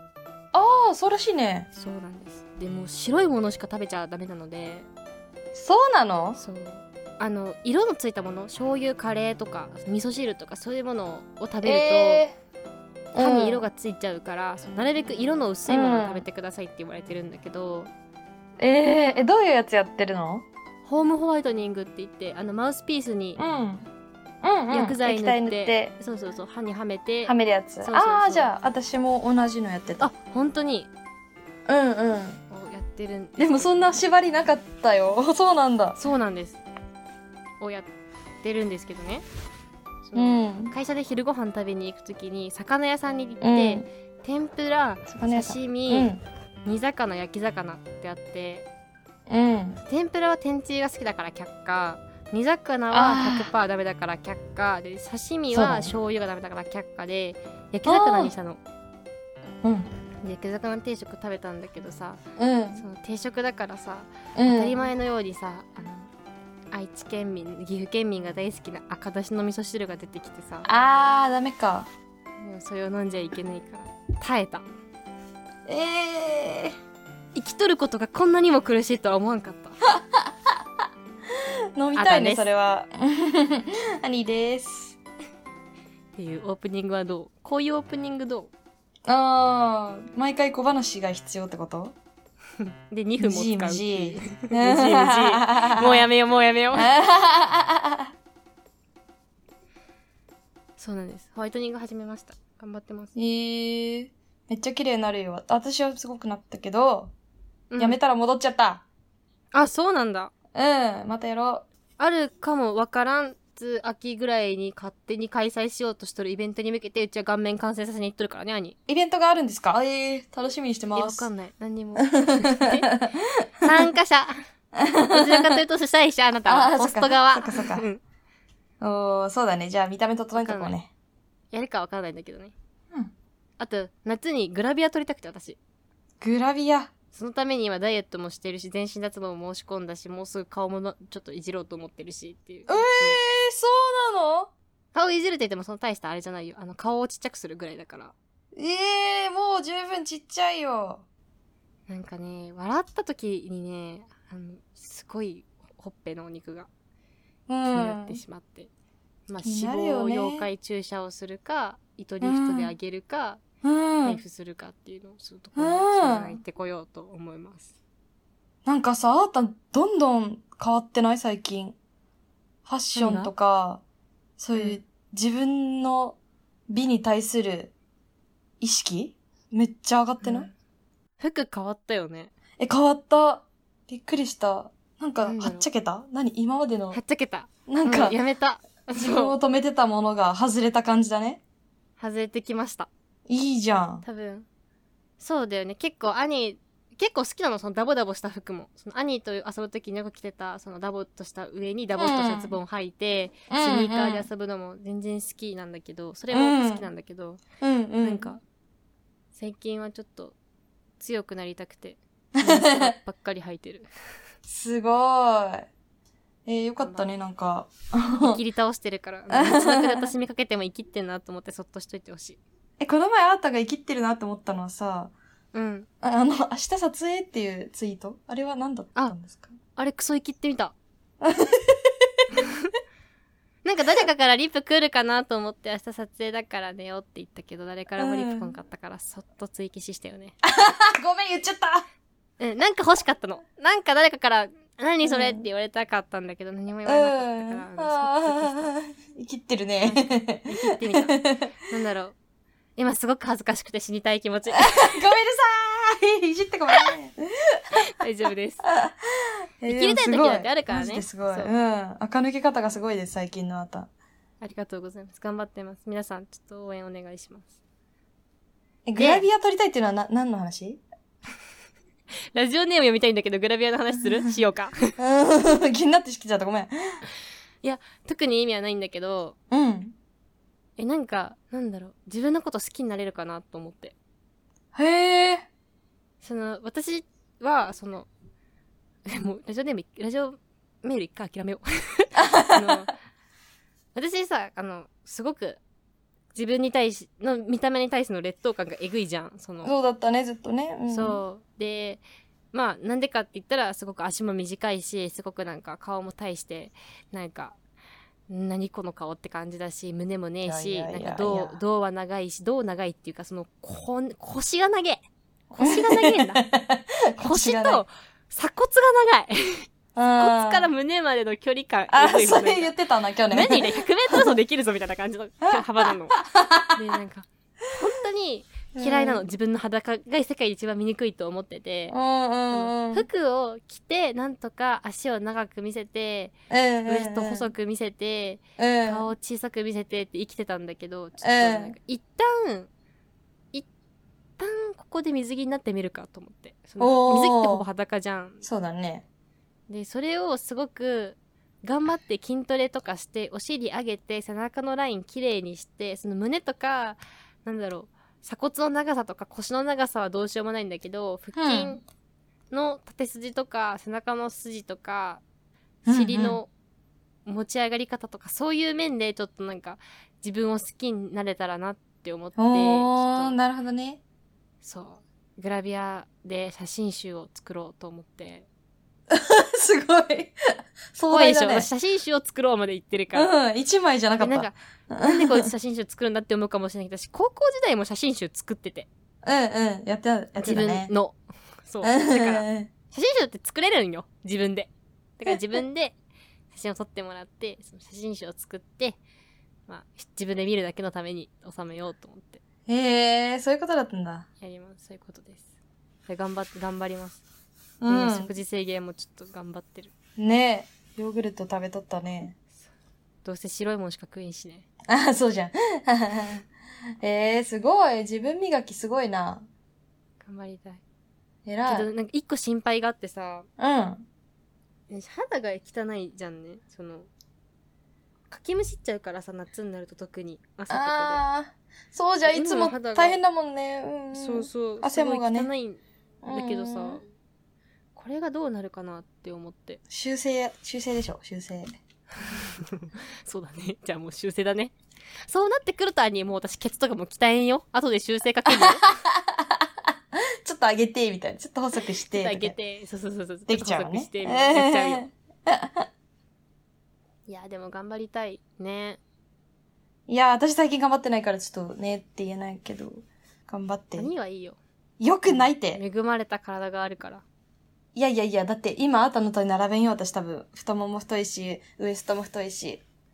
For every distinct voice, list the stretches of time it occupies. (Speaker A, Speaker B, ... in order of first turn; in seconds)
Speaker A: 0.5-1.7, 5.5-6.4, 11.6-12.3, 13.1-13.7, 15.7-16.2, 18.6-20.4, 23.4-23.9, 24.4-25.9, 27.2-30.1, 31.7-32.4, 33.4-36.0, 40.1-40.7, 43.4-43.9, 45.1-46.2, 49.3-49.8, 52.9-53.5, 55.5-55.9, 57.8-58.3, 59.6-59.9, 62.4-62.8, 64.3-64.8, 70.7-71.9, 75.7-76.7, 79.9-80.3, 81.8-85.0, 89.1-92.0, 93.2-96.1, 96.7-98.1, 103.2-107.1, 107.8-108.9, 110.5-111.7, 118.9-121.3, 122.0-123.7, 124.8-125.6, 126.5-127.8, 128.8-130.9, 136.2-136.9, 142.7-144.5, 148.5-151.0, 157.5-158.2, 159.4-160.5, 162.2-162.7, 163.6-164.2, 165.5-166.4, 168.6-171.8, 172.7-173.8, 174.4-176.2, 176.7-177.7, 178.6-180.5, 182.6-187.0, 187.7-188.2, 188.9-191.4, 193.3-194.0, 201.9-202.5, 203.5-204.3, 206.3-206.8, 207.6-208.3, 212.3-212.9, 214.5-215.7, 216.4-218.4, 219.3-220.1, 222.8-225.1, 226.0-229.5, 231.2-231.9, 238.0-238.5, 240.4-241.8, 245.0-245.4, 246.8-251.5, 254.6-257.6, 258.6-263.9, 268.9-270.8, 275.0-276.7, 279.5-279.9, 284.7-285.4, 292.2-292.9, 299.6-301.2, 310.4-311.6, 315.5-317.8, 319.9-320.7, 321.9-324.4, 325.4-326.8, 328.7-329.2, 331.9-333.1, 336.5-337.5, 338.6-339.1, 341.2-341.8, 346.8-347.7, 348.4-349.1, 361.3-361.8, 365.9-366.4, 372.4-374.0, 379.1-380.3, 380.9-381.7, 383.1-385.5, 389.2-390.9, 391.8-392.7, 402.7-404.2, 407.8-408.3, 410.2-412.4, 414.9-416.4, 417.0-419.5, 421.4-421.9, 423.6-424.1, 430.7-435.5, 436.2-437.0, 439.9-441.8, 448.6-449.6, 450.4-452.6, 453.5-455.9, 460.1-464.1, 465.0-465.8, 467.9-472.8
Speaker B: 1.7-4.9, 6.4-12.2, 13.2-17.9, 20.8-23.4, 24.7-28.5, 30.0-30.9, 32.5-33.9, 36.0-36.6, 37.6-37.9, 38.4-39.2, 40.0-46.1, 46.6-48.7, 49.9-58.6, 60.2-62.2, 62.8-66.1, 66.7-70.7, 72.4-74.7, 77.3-79.8, 82.0-82.5, 86.2-88.5, 92.6-96.9, 100.8-103.1, 107.7-108.0, 109.5-110.3, 112.0-118.8, 121.0-122.9, 123.6-124.3, 125.1-128.0, 130.3-130.8, 131.5-132.5, 133.6-135.6, 137.1-143.2, 144.9-148.1, 151.9-156.7, 157.7-158.7, 159.3-163.4, 164.0-167.7, 172.9-173.3, 180.2-180.5, 181.2-182.3, 185.2-185.7, 186.9-189.3, 192.0-192.9, 194.0-194.5, 195.2-207.4, 208.0-208.4, 209.3-210.3, 211.0-213.9, 216.8-217.1, 218.2-222.4, 225.5-225.9, 229.8-230.8, 232.3-232.7, 233.6-240.3, 242.4-248.7, 249.8-251.2, 251.7-252.2, 252.8-255.0, 257.9-258.6, 259.7-261.5, 264.4-267.5, 269.0-269.3, 272.3-274.9, 277.6-279.4, 280.8-283.9, 286.2-288.1, 289.1-292.9, 293.9-295.6, 296.3-299.7, 300.9-307.6, 308.3-315.0, 315.6-316.4, 317.2-319.7, 320.2-322.7, 323.3-326.1, 326.7-331.9, 332.5-336.3, 336.9-342.7, 344.4-348.4, 349.7-361.8, 362.5-365.2, 365.9-366.5, 367.2-373.4, 374.6-378.5, 381.1-383.3, 384.2-388.9, 390.4-395.9, 396.5-399.0, 399.7-402.4, 404.4-405.4, 406.1-407.2, 407.9-409.9, 413.2-414.6, 420.2-420.8, 421.6-423.5, 424.9-427.1, 428.3-431.2, 432.2-433.2, 434.1-437.1, 437.9-439.8, 442.2-444.7, 445.2-448.8, 452.1-455.1, 457.3-459.0, 463.9-464.6, 465.2-467.2